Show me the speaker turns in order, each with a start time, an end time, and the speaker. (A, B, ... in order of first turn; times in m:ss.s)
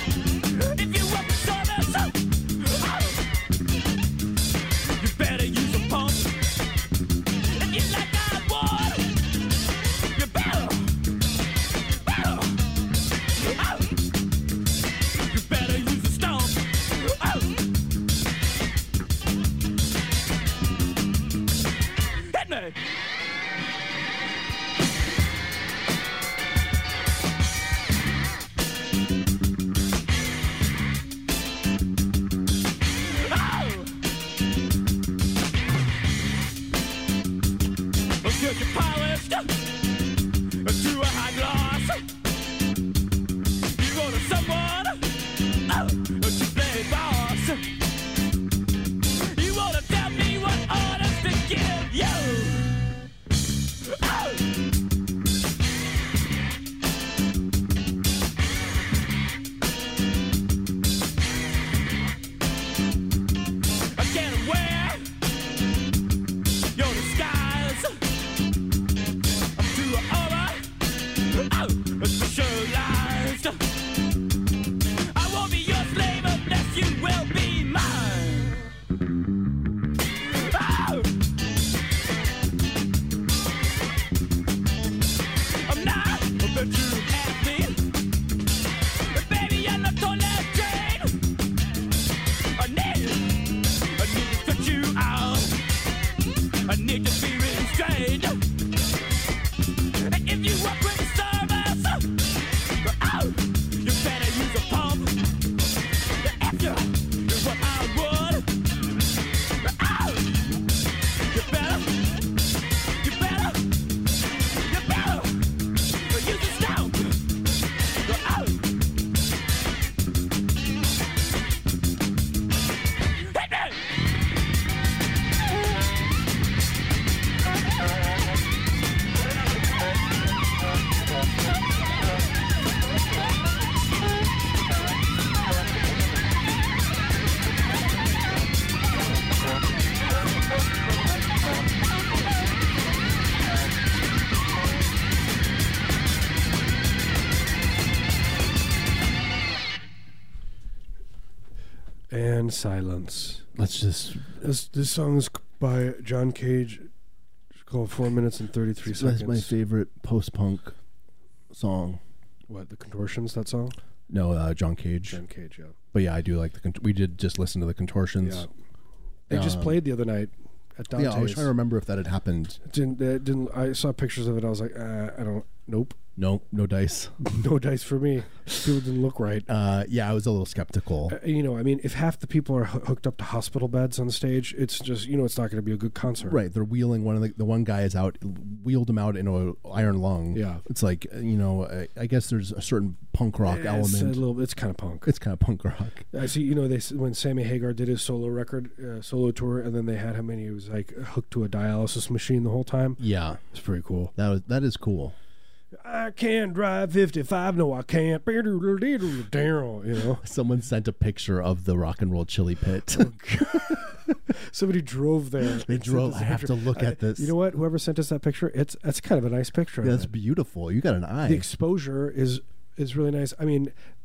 0:00.5-0:03.2 A
0:04.9-0:06.4 A
0:07.5-0:09.2 A
0:10.1-0:10.9 A
0:12.0-0:12.6 A
0:13.4-0:13.9 A
0:15.2-0:17.6 A
0:22.3-0:22.8 A
0:33.1-0:33.9 A
0:38.2-0:39.6 A
0:40.6-0:42.0 A
0:43.7-0:47.6 A
0:49.3-0:52.8 A
0:53.9-0:54.5 A
1:04.0-1:05.1 A
1:06.8-1:07.9 A
1:09.6-1:13.6 A
1:15.1-1:18.6 A
1:20.3-1:21.1 A
1:25.7-1:27.9 A
1:29.1-1:31.2 A
1:32.6-1:35.6 A
1:36.7-1:38.4 A
1:40.0-1:42.2 A
1:42.8-1:45.2 A
1:46.2-1:48.5 A
1:49.6-1:50.4 A
1:51.3-1:52.2 A
1:53.0-1:53.7 A
1:54.6-1:55.4 A
1:56.1-1:57.2 A
1:58.0-1:58.6 A
2:03.3-2:03.8 A
2:32.1-2:33.5 B
2:33.6-2:34.4 C
2:34.4-2:36.9 B
2:37.6-2:39.5 B
2:38.9-2:40.8 C
2:41.5-2:42.0 C
2:42.5-2:43.8 B
2:44.1-2:45.2 C
2:45.1-2:45.8 B
2:45.9-2:48.5 C
2:48.2-2:48.5 B
2:49.3-2:51.5 B
2:49.3-2:49.8 C
2:50.9-2:52.6 C
2:52.6-2:56.0 B
2:56.2-2:57.2 C
2:57.2-2:59.5 B
2:59.5-3:01.2 C
3:01.1-3:06.4 B
3:06.2-3:14.3 C
3:10.3-3:10.6 B
3:13.4-3:15.1 B
3:15.0-3:16.1 C
3:16.1-3:24.1 B
3:23.0-3:23.4 C
3:24.2-3:25.2 C
3:25.8-3:30.2 B
3:30.2-3:33.2 C
3:32.9-3:40.1 B
3:35.5-3:37.3 C
3:39.8-3:41.5 C
3:41.2-3:43.7 B